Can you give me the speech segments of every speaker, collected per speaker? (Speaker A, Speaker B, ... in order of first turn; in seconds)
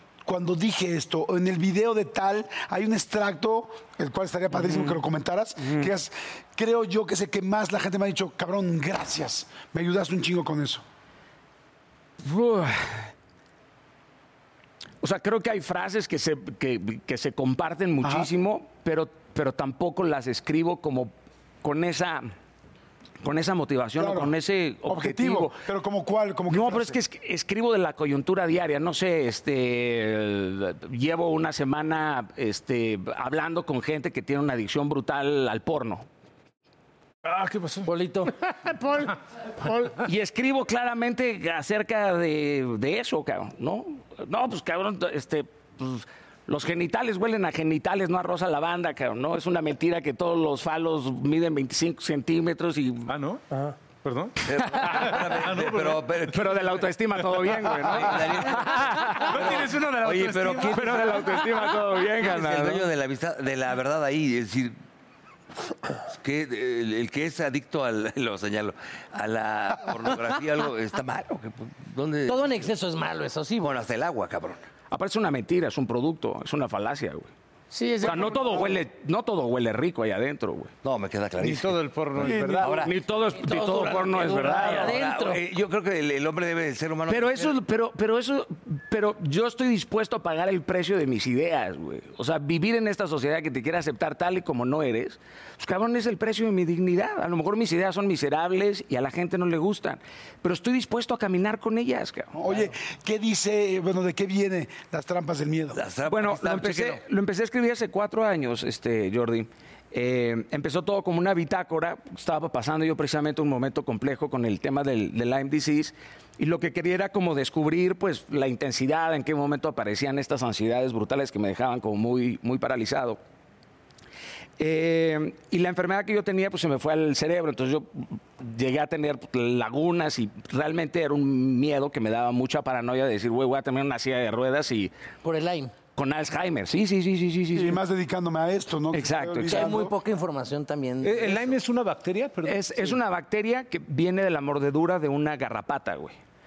Speaker A: 0.3-10.8, 18.0-18.3, 24.0-27.0, 82.2-82.8, 102.3-105.8, 137.5-139.9
Speaker B: 4.5-5.0, 5.6-5.9, 12.2-13.1, 15.0-22.3, 23.2-25.6, 26.5-36.1, 40.0-53.1, 54.6-55.2, 56.3-59.4, 60.7-62.9, 74.9-77.3, 78.0-80.7, 82.8-85.0, 87.1-102.3, 106.1-123.2, 124.6-134.9, 135.9-137.8, 138.9-139.8, 142.5-146.2
Speaker C: 37.2-37.9, 53.1-56.2, 57.2-57.9, 58.7-61.6, 81.4-82.7, 141.0-142.9
Speaker D: 37.8-38.3, 72.3-73.7, 83.4-85.4, 135.2-135.7, 139.4-141.6
Speaker E: 38.5-40.0, 77.7-78.8
Speaker F: 54.4-56.6, 57.8-64.8, 66.1-72.6, 73.6-74.6, 80.8-82.9, 84.4-87.5, 105.7-107.0